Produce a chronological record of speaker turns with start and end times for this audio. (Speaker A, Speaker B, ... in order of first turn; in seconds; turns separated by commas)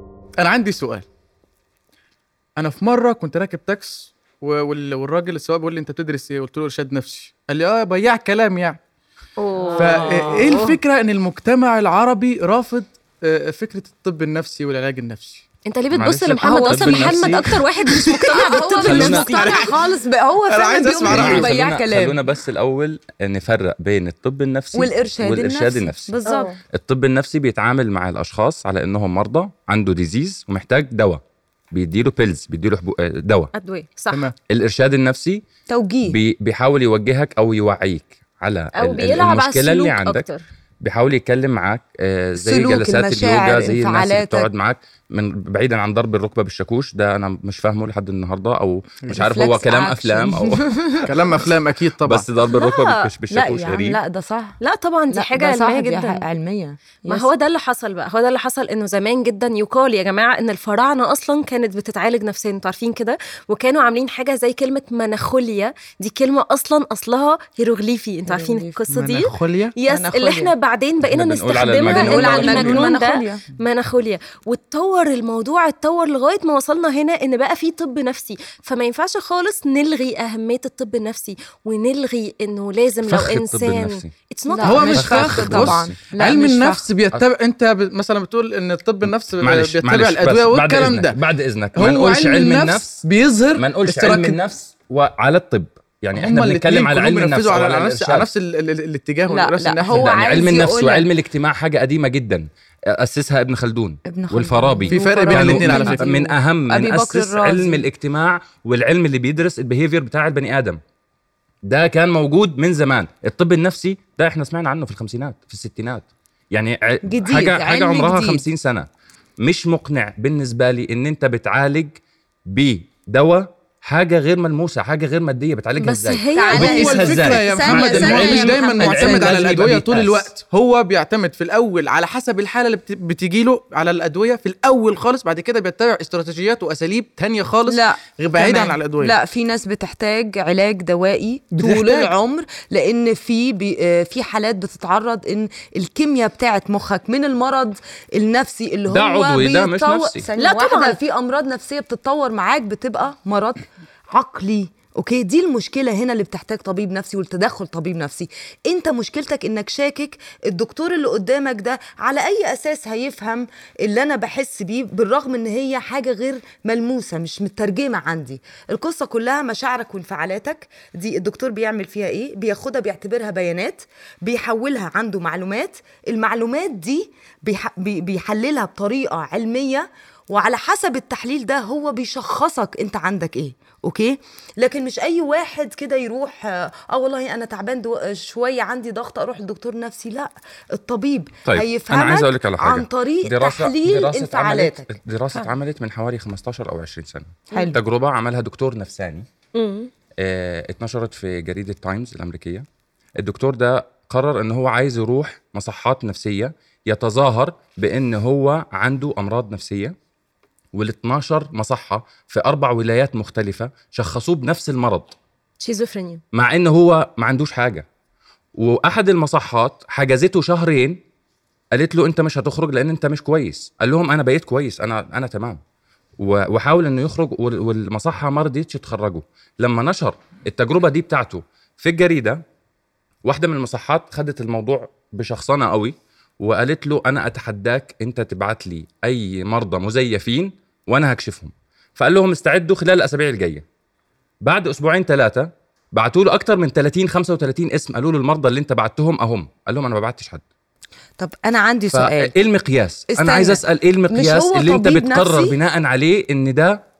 Speaker A: 0.4-1.1, Speaker A: 2.6-8.8, Speaker B: 9.4-10.6, Speaker C: 9.5-10.8, Speaker A: 9.8-15.4, Speaker C: 15.7-19.7, Speaker D: 15.9-17.4, Speaker B: 16.4-22.2, Speaker D: 18.8-19.5, Speaker A: 19.3-19.8, Speaker A: 20.5-21.6, Speaker D: 21.1-26.1, Speaker B: 24.7-26.6, Speaker C: 26.2-26.5, Speaker D: 26.7-31.2, Speaker D: 31.7-33.5, Speaker C: 33.5-34.3, Speaker D: 34.5-35.4, Speaker B: 35.7-36.2, Speaker D: 36.0-40.2, Speaker C: 38.7-40.4, Speaker D: 40.8-50.6, Speaker B: 42.4-44.5, Speaker B: 49.2-51.2, Speaker A: 51.0-52.3, Speaker D: 52.0-54.0, Speaker C: 52.5-53.0, Speaker B: 53.3-54.6, Speaker C: 54.6-56.2, Speaker B: 55.1-57.3, Speaker C: 57.1-85.3, Speaker B: 68.2-68.8, Speaker A: 68.9-69.7, Speaker B: 69.9-70.5, Speaker D: 71.0-72.8, Speaker B: 71.8-73.4, Speaker D: 83.1-84.1, Speaker B: 84.5-86.9, Speaker A: 84.6-91.2, Speaker D: 84.9-86.1, Speaker D: 89.4-93.0, Speaker A: 91.7-94.4, Speaker D: 93.5-98.3, Speaker A: 96.1-100.3, Speaker B: 99.3-101.1, Speaker D: 99.9-110.8, Speaker B: 104.0-106.1, Speaker A: 104.9-106.3, Speaker B: 106.7-107.8, Speaker D: 111.7-118.9, Speaker B: 117.0-118.5, Speaker D: 119.4-130.3, Speaker C: 125.8-126.8, Speaker B: 126.3-129.4, Speaker A: 126.5-139.2, Speaker B: 137.7-194.9, Speaker A: 141.5-142.1, Speaker D: 148.9-150.2, Speaker C: 150.4-151.0, Speaker D: 191.5-199.2, Speaker B: 197.5-197.8, Speaker C: 199.5-199.9, Speaker D: 200.2-202.6, Speaker D: 203.2-209.9, Speaker D: 210.7-215.1, Speaker C: 215.6-216.2, Speaker D: 216.3-217.8, Speaker D: 218.5-221.0, Speaker D: 221.7-225.6, Speaker D: 226.2-232.4, Speaker D: 233.2-243.6, Speaker D: 244.4-250.4, Speaker B: 251.2-252.3, Speaker D: 251.9-256.8, Speaker B: 253.1-255.6